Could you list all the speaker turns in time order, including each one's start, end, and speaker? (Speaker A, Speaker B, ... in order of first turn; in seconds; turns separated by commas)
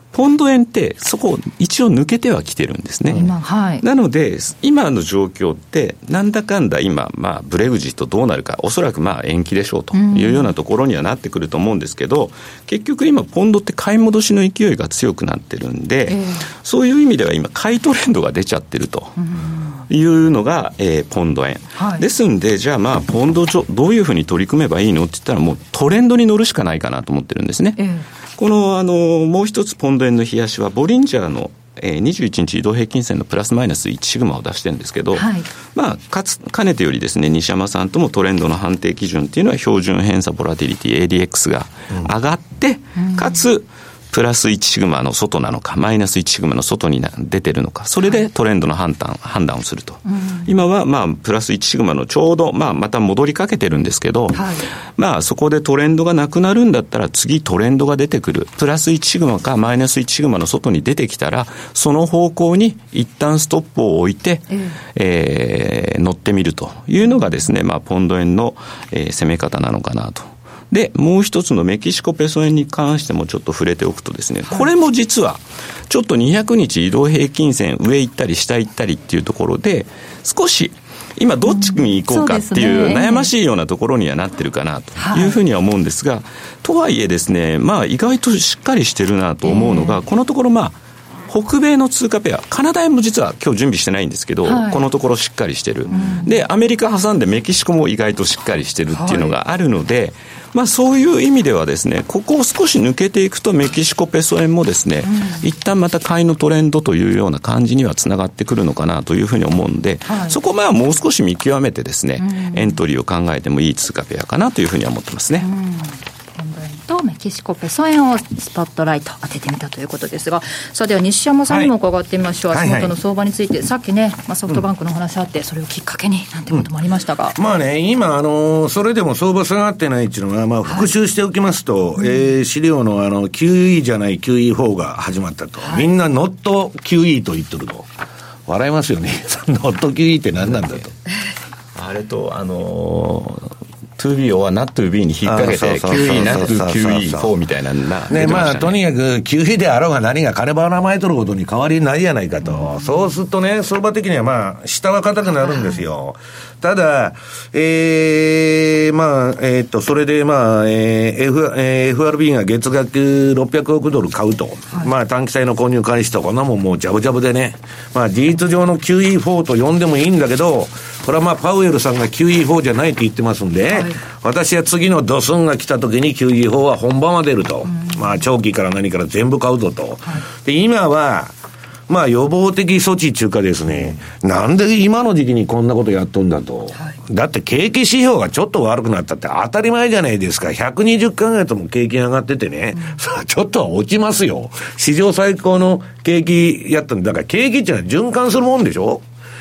Speaker A: 0.1-19.2, Speaker B: 3.1-3.8, Speaker B: 9.9-10.5, Speaker B: 16.1-16.5, Speaker B: 19.2-19.8, Speaker A: 19.9-27.8, Speaker B: 21.7-22.0, Speaker B: 27.8-28.0, Speaker A: 28.4-90.8, Speaker B: 35.1-35.5, Speaker B: 43.0-43.4, Speaker B: 50.0-50.5, Speaker B: 54.3-54.7, Speaker B: 64.5-64.8, Speaker B: 81.5-83.3, Speaker B: 85.0-85.4, Speaker B: 89.4-90.0, Speaker A: 91.3-115.5, Speaker B: 94.4-94.9, Speaker B: 95.9-96.3, Speaker B: 98.9-99.3, Speaker B: 105.0-105.4, Speaker B: 110.1-110.4, Speaker B: 112.2-112.8, Speaker B: 115.4-127.4, Speaker C: 122.5-123.0, Speaker C: 127.3-137.9, Speaker B: 135.6-135.9, Speaker C: 138.4-140.9, Speaker A: 141.7-148.8, Speaker C: 145.2-147.3, Speaker C: 148.1-181.3, Speaker B: 155.4-155.8, Speaker B: 173.7-174.0, Speaker B: 177.7-178.0, Speaker C: 181.9-199.0